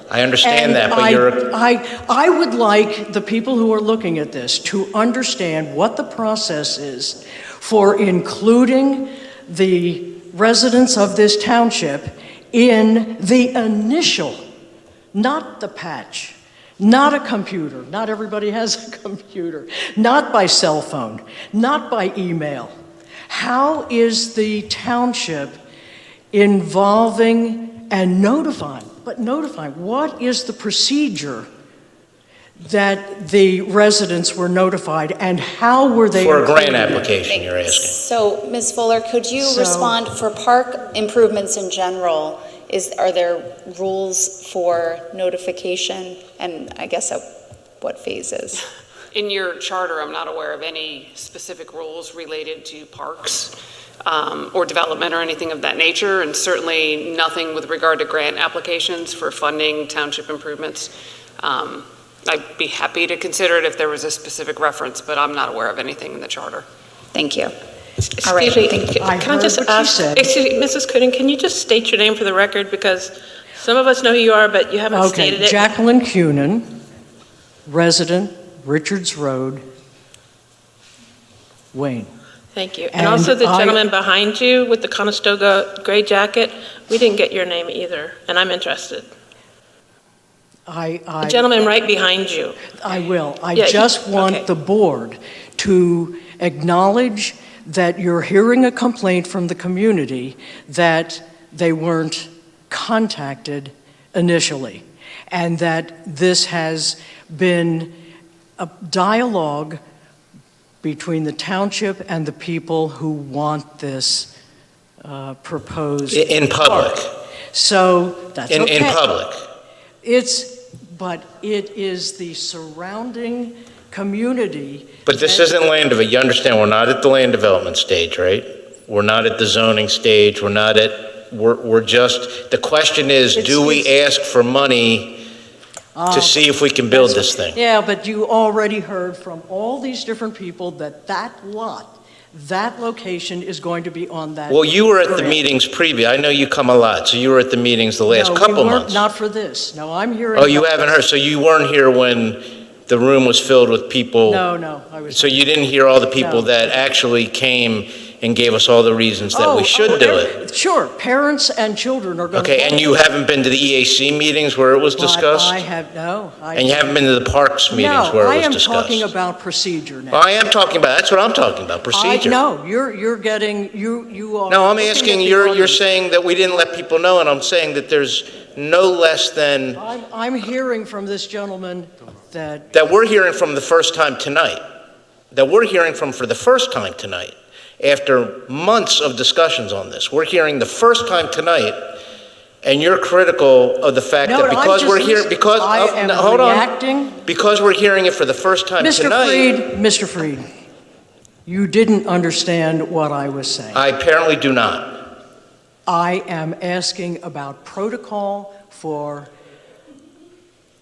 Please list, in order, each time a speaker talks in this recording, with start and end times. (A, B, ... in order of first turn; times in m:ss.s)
0:00.1-0:01.5 A
0:00.4-0:14.4 B
0:15.1-0:22.7 B
0:23.3-0:25.6 B
0:26.3-0:31.5 B
0:32.6-0:37.1 B
0:36.1-0:38.0 A
0:37.2-0:47.2 C
0:39.4-0:40.0 B
0:47.8-0:48.6 C
0:49.1-1:06.7 D
1:07.1-1:07.5 C
1:08.2-1:08.9 C
1:08.4-1:15.6 E
1:09.0-1:10.3 B
1:14.9-1:16.7 B
1:17.7-1:19.6 B
1:21.7-1:22.1 B
1:22.5-1:29.1 E
1:22.9-1:23.8 B
1:30.7-1:31.6 B
1:31.2-1:32.6 E
1:32.7-1:47.9 B
1:33.6-1:34.4 E
1:48.6-1:49.8 B
1:50.8-1:54.3 B
1:55.0-1:57.0 B
1:56.1-1:57.1 A
1:57.5-1:59.0 B
1:58.5-1:59.5 A
2:00.0-2:05.5 B
2:05.1-2:15.2 A
2:13.3-2:13.9 B
2:15.9-2:25.4 B
2:16.1-2:17.6 A
2:24.5-2:29.0 A
2:28.1-2:31.0 B
2:30.3-2:34.4 A
2:34.2-2:35.4 B
2:35.1-2:40.4 A
2:36.2-2:36.7 B
2:39.3-2:43.0 B
2:42.3-2:45.6 A
2:45.0-2:47.0 B
2:46.6-2:49.1 A
2:47.7-2:50.2 B
2:50.1-2:52.4 A
2:51.9-2:55.8 B
2:54.5-2:59.8 A
2:59.8-3:02.7 B
3:02.7-3:04.6 A
3:05.3-3:12.0 A
3:12.6-3:16.7 A
3:14.2-3:17.2 B
3:17.2-3:19.6 A
3:18.8-3:20.5 B
3:21.5-3:23.8 B
3:23.7-3:25.1 A
3:25.9-3:29.3 B